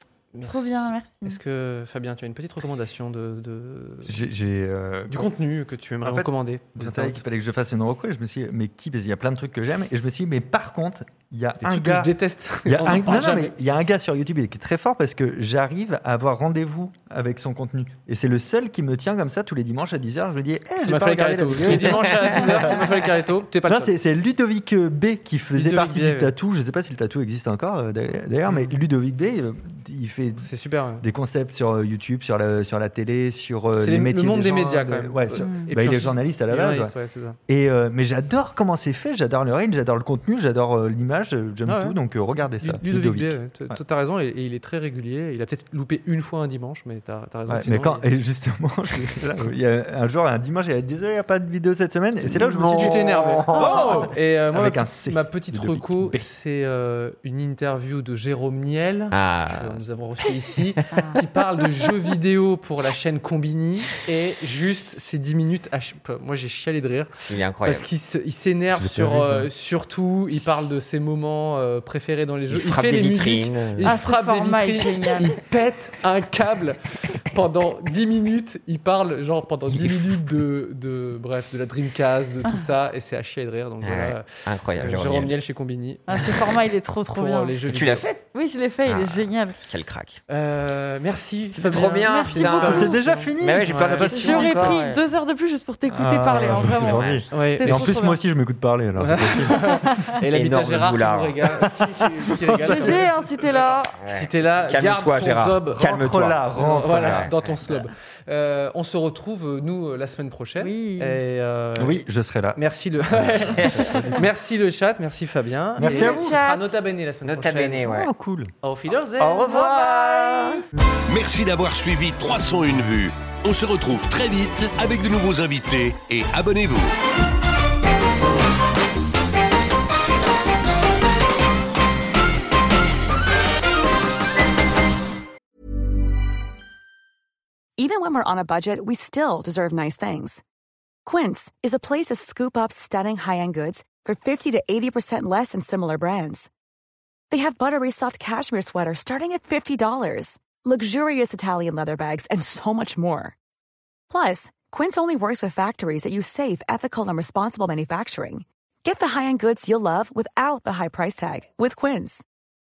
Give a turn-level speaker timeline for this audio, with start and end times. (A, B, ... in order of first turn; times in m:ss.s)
0:00.3-0:04.1 A
0:00.5-0:01.4 B
0:04.0-0:05.3 C
0:05.1-0:07.2 A
0:06.0-0:22.9 C
0:11.6-0:13.6 A
0:20.8-0:23.9 A
0:21.6-0:22.3 D
0:23.7-0:30.5 C
0:25.5-0:26.3 A
0:28.5-0:28.7 A
0:30.4-0:31.0 A
0:31.0-0:36.9 C
0:33.8-0:37.4 A
0:35.4-0:35.7 B
0:37.5-0:43.8 C
0:41.6-0:41.9 A
0:42.6-0:48.0 A
0:47.5-0:56.3 C
0:52.5-1:28.1 A
0:53.5-0:54.1 B
0:59.1-0:59.8 D
1:07.2-1:07.9 D
1:08.7-1:09.5 C
1:12.5-1:14.0 D
1:13.8-1:15.4 B
1:19.7-1:20.4 D
1:23.8-1:25.4 D
1:26.1-1:27.6 B
1:27.7-1:28.2 D
1:28.2-1:29.6 B
1:28.8-1:30.2 D
1:30.3-1:34.7 A
1:31.5-1:35.0 D
1:32.0-1:33.0 B
1:32.3-1:34.8 C
1:34.0-1:38.2 B
1:35.9-1:39.8 C
1:36.4-1:37.2 D
1:37.3-1:38.0 A
1:39.0-1:43.1 A
1:39.8-1:40.2 B
1:40.3-1:41.6 D
1:42.4-1:43.1 C
1:42.6-1:44.0 B
1:44.0-1:45.8 A
1:44.0-1:47.8 D
1:45.7-1:47.3 C
1:46.5-1:52.0 A
1:50.6-1:51.2 B
1:51.8-1:52.6 C
1:52.6-1:57.9 A
1:53.1-1:54.2 C
1:53.4-1:54.0 D
1:55.8-1:56.3 C
1:55.8-1:56.7 B
1:57.2-1:58.1 D
1:57.8-1:58.5 C
1:58.6-1:59.4 A
1:59.2-2:00.6 D
1:59.4-2:00.6 B
2:01.1-2:06.9 E
2:17.8-2:20.4 F
2:21.0-2:26.5 F
2:27.3-2:33.3 F
2:34.1-2:42.2 F